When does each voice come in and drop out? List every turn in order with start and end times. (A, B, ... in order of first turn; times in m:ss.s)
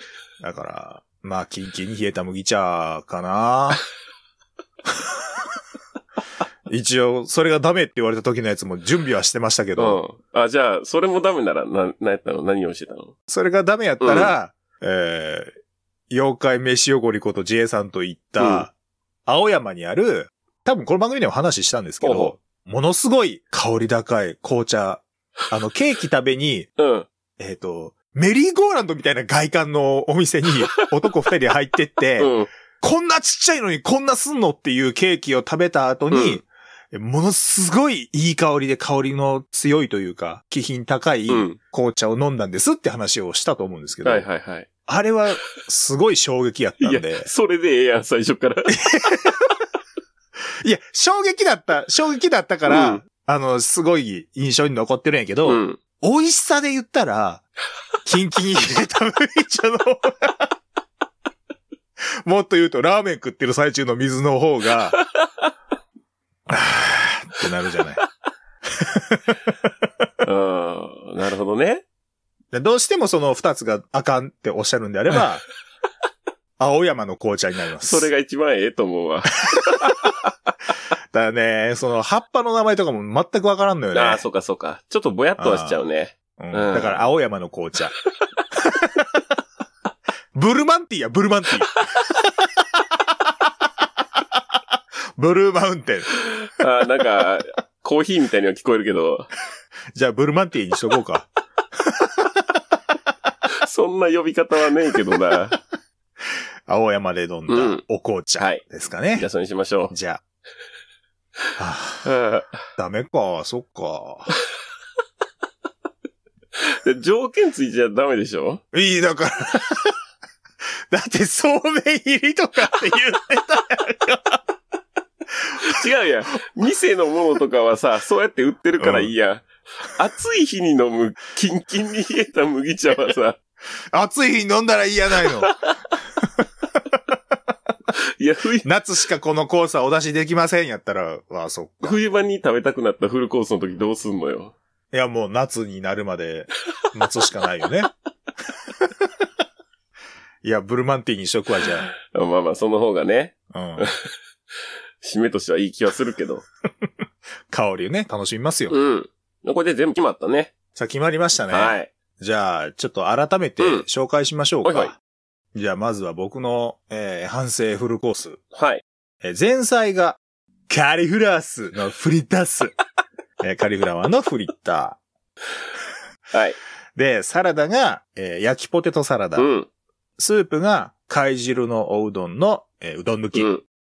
0:00.4-0:03.8 A
0:06.7-0:10.0 A
0:09.8-0:13.1 B
0:13.3-0:15.5 A
0:14.0-0:14.3 B
0:16.1-0:18.7 A
0:18.4-0:18.6 B
0:19.2-0:26.7 A
0:22.0-0:22.3 B
0:26.8-0:27.1 B
0:27.4-0:44.2 A
0:32.2-0:32.5 B
0:36.1-0:36.4 B
0:41.3-0:41.6 B
0:44.0-0:44.7 B
0:44.9-0:47.3 A
0:46.8-0:48.8 B
0:48.7-0:49.4 A
0:50.6-0:57.4 A
0:52.6-0:53.0 B
0:55.4-0:55.8 B
0:58.0-1:00.5 A
1:02.2-1:05.0 A
1:06.5-1:08.0 A
1:08.6-1:09.4 A
1:10.2-1:11.8 B
1:12.5-1:15.4 A
1:16.6-1:18.1 A
1:17.8-1:20.3 B
1:21.1-1:24.2 A
1:23.9-1:27.0 B
1:25.4-1:25.8 A
1:26.4-1:27.9 A
1:28.5-1:29.2 A
1:30.3-1:32.3 A
1:35.2-1:36.1 A
1:36.4-1:39.3 B
1:39.9-1:42.4 A
1:43.6-1:45.6 B
1:46.7-1:49.3 A
1:47.5-1:47.8 B
1:49.2-1:49.9 B
1:49.9-1:50.2 A
1:51.6-1:52.1 A
1:52.0-1:52.6 B
1:52.8-1:54.3 A
1:56.6-1:58.6 B
1:58.7-2:00.0 A
2:00.9-2:04.4 A
2:05.4-2:05.8 A
2:05.6-2:13.4 B
2:08.8-2:09.1 A
2:13.9-2:15.5 A
2:18.0-2:18.7 B
2:18.6-2:22.0 A
2:21.8-2:24.6 B
2:24.9-2:27.9 A
2:28.8-2:29.1 A
2:30.4-2:31.9 A
2:32.1-2:34.1 B
2:33.5-2:33.9 A
2:35.0-2:36.4 B
2:37.5-2:38.8 A
2:38.7-2:40.5 B
2:40.8-2:45.0 A
2:41.5-2:41.9 B
2:43.6-2:43.8 B
2:44.6-2:44.9 B
2:45.5-2:48.4 A
2:48.5-2:48.8 B
2:49.2-2:52.8 A
2:53.4-2:55.0 A
2:56.3-2:56.6 B
2:56.9-2:59.5 A
2:59.4-2:59.7 B
3:00.2-3:03.5 A
3:03.3-3:03.6 B